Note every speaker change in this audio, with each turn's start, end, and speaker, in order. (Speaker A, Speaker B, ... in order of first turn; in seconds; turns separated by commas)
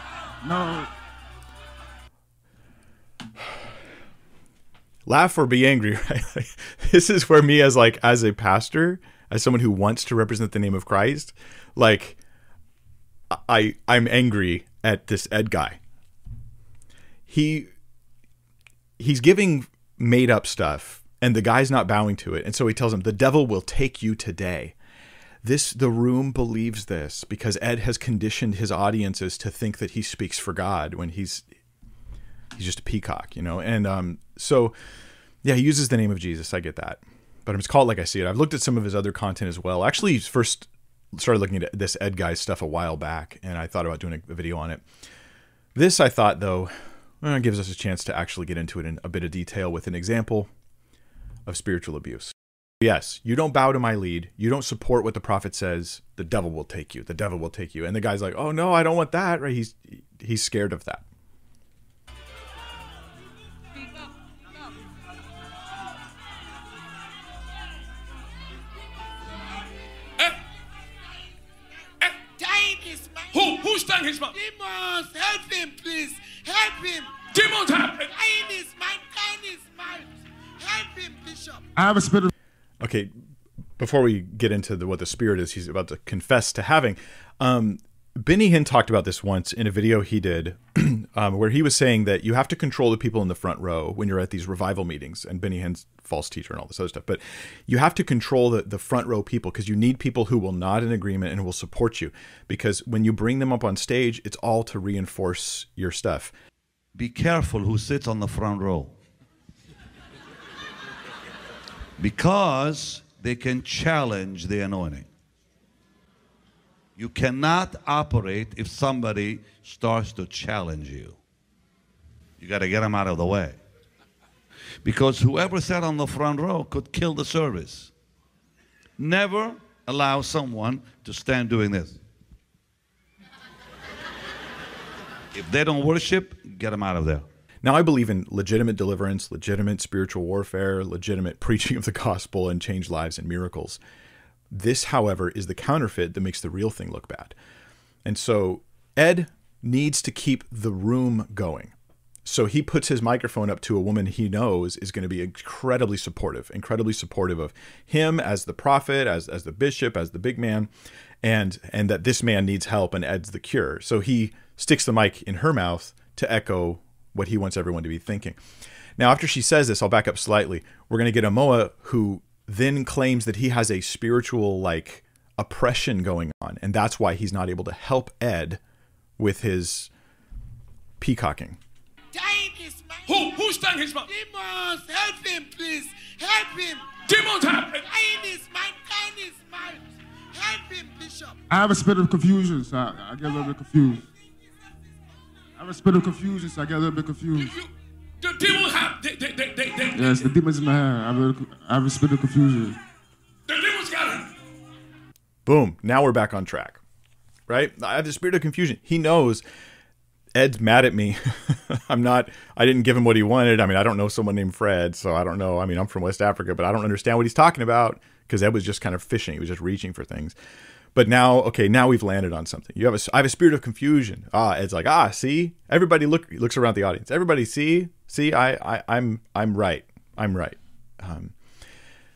Speaker A: 0.4-0.9, Speaker B: 5.0-12.2, Speaker B: 13.3-15.8, Speaker B: 17.3-17.7, Speaker B: 19.0-24.7, Speaker B: 25.4-31.4, Speaker B: 32.5-34.7, Speaker B: 35.4-44.8, Speaker B: 45.7-50.5, Speaker B: 51.5-61.0, Speaker C: 72.4-73.6, Speaker D: 73.3-74.3, Speaker C: 74.3-77.1, Speaker D: 77.3-78.1, Speaker C: 78.1-81.6, Speaker A: 81.8-82.3, Speaker B: 82.8-83.1, Speaker B: 83.8-106.3, Speaker E: 106.9-108.9, Speaker E: 112.0-115.1, Speaker E: 117.0-121.2, Speaker E: 122.4-123.6, Speaker E: 124.8-127.9, Speaker E: 129.0-132.0, Speaker E: 135.3-137.2, Speaker B: 137.6-143.8, Speaker B: 144.5-147.3, Speaker B: 148.0-151.7, Speaker B: 152.2-160.7, Speaker B: 161.2-168.4, Speaker B: 169.0-178.6, Speaker B: 179.2-179.9, Speaker B: 181.0-181.6, Speaker C: 182.1-183.3, Speaker D: 183.1-184.1, Speaker C: 184.1-186.8, Speaker D: 187.1-187.8, Speaker C: 187.8-191.4, Speaker A: 191.5-194.1, Speaker A: 195.6-197.5, Speaker D: 197.3-200.3, Speaker A: 199.9-202.8, Speaker D: 203.5-204.3, Speaker B: 205.4-206.8, Speaker B: 207.5-209.4, Speaker B: 210.3-220.3, Speaker B: 220.9-231.3